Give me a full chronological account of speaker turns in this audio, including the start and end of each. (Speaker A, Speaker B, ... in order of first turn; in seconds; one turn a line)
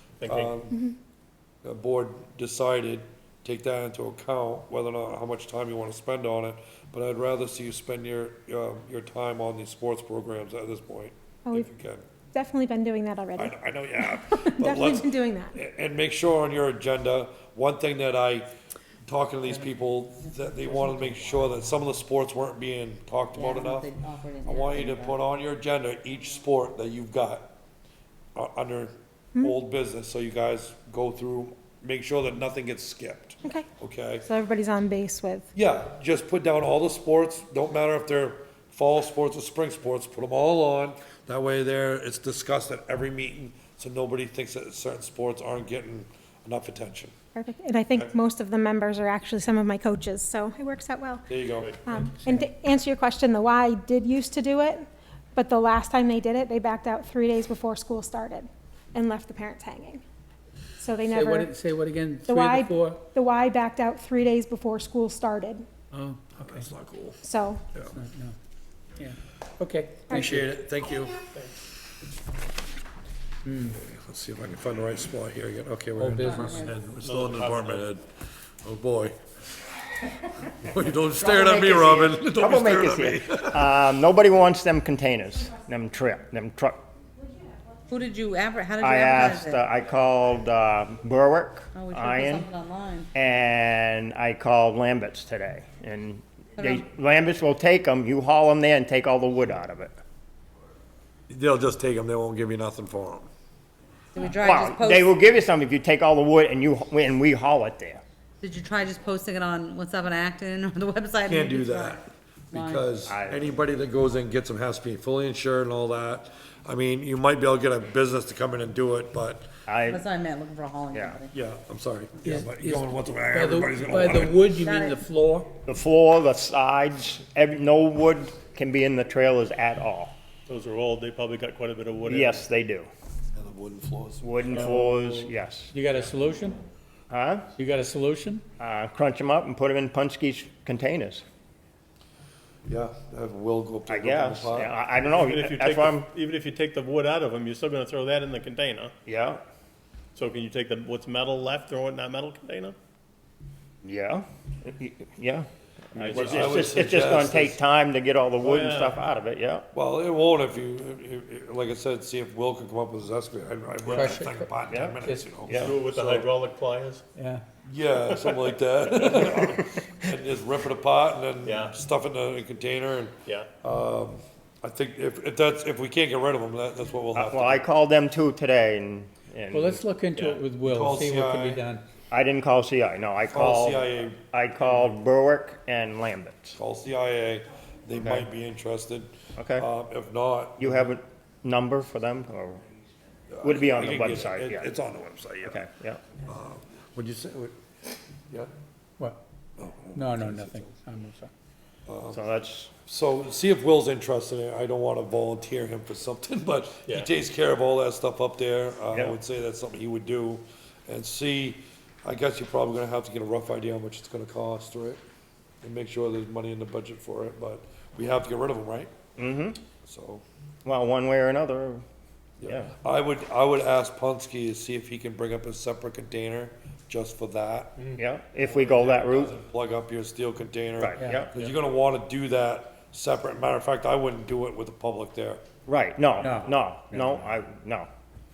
Speaker A: 0.2-0.5
Speaker B: 0.3-0.8
Speaker B: 1.6-12.0
Speaker C: 12.3-15.6
Speaker B: 13.4-18.5
Speaker B: 19.0-23.9
Speaker D: 20.3-21.5
Speaker D: 23.3-25.2
Speaker B: 24.4-27.5
Speaker B: 28.3-34.2
Speaker C: 34.2-35.5
Speaker B: 35.5-47.1
Speaker C: 47.3-51.3
Speaker B: 51.3-51.8
Speaker C: 51.8-60.0
Speaker C: 60.8-61.5
Speaker E: 61.1-63.0
Speaker C: 62.2-65.6
Speaker E: 65.9-66.3
Speaker B: 66.3-67.2
Speaker C: 67.2-67.6
Speaker E: 67.9-68.3
Speaker E: 69.0-70.4
Speaker B: 70.1-71.2
Speaker E: 73.5-73.8
Speaker B: 73.6-78.0
Speaker E: 76.0-76.7
Speaker D: 76.2-76.7
Speaker A: 77.0-77.8
Speaker B: 78.6-79.2
Speaker B: 80.6-83.8
Speaker F: 81.2-86.8
Speaker D: 87.9-89.6
Speaker F: 88.8-92.5
Speaker D: 91.7-93.1
Speaker F: 93.1-100.0
Speaker D: 96.6-96.8
Speaker B: 101.3-103.3
Speaker D: 104.1-105.2
Speaker F: 104.4-108.0
Speaker D: 108.4-112.0
Speaker B: 111.2-119.5
Speaker D: 112.5-112.9
Speaker F: 113.0-113.4
Speaker F: 119.7-120.0
Speaker D: 119.8-121.3
Speaker F: 120.9-121.2
Speaker B: 121.3-124.5
Speaker E: 122.2-125.5
Speaker D: 124.6-125.0
Speaker F: 125.7-130.2
Speaker A: 130.5-132.4
Speaker F: 132.1-132.9
Speaker B: 133.3-134.6
Speaker F: 134.2-135.7
Speaker E: 134.5-136.6
Speaker F: 137.1-137.5
Speaker E: 137.5-138.4
Speaker F: 138.6-141.2
Speaker B: 142.7-144.7
Speaker F: 143.9-146.1
Speaker A: 145.2-148.9
Speaker F: 149.1-149.4
Speaker A: 150.1-152.7
Speaker F: 153.8-159.7
Speaker A: 156.0-156.3
Speaker B: 156.1-157.6
Speaker A: 158.4-158.9
Speaker B: 159.7-166.3
Speaker E: 163.8-165.4
Speaker F: 164.7-165.8
Speaker A: 165.6-167.0
Speaker E: 167.2-167.4
Speaker B: 167.6-177.6
Speaker A: 171.4-171.7
Speaker F: 177.1-179.8
Speaker E: 179.5-181.8
Speaker A: 180.1-180.4
Speaker B: 180.6-181.6
Speaker F: 182.1-186.6
Speaker B: 183.3-184.3
Speaker B: 186.6-190.9
Speaker F: 188.0-188.2
Speaker F: 189.4-189.6
Speaker F: 190.6-192.6
Speaker B: 193.3-195.6
Speaker F: 193.4-194.7
Speaker F: 195.4-196.1
Speaker B: 196.2-197.6
Speaker B: 199.6-200.7
Speaker E: 199.9-201.3
Speaker B: 201.9-202.2
Speaker F: 202.1-202.7
Speaker B: 202.8-215.0
Speaker B: 215.6-218.9
Speaker F: 219.2-219.6
Speaker B: 219.8-220.2
Speaker F: 220.6-221.8
Speaker B: 222.4-227.7
Speaker F: 222.4-222.7
Speaker F: 227.9-229.3
Speaker B: 228.5-235.4
Speaker F: 230.8-231.3
Speaker E: 231.0-231.3
Speaker F: 235.7-237.9
Speaker E: 236.2-237.3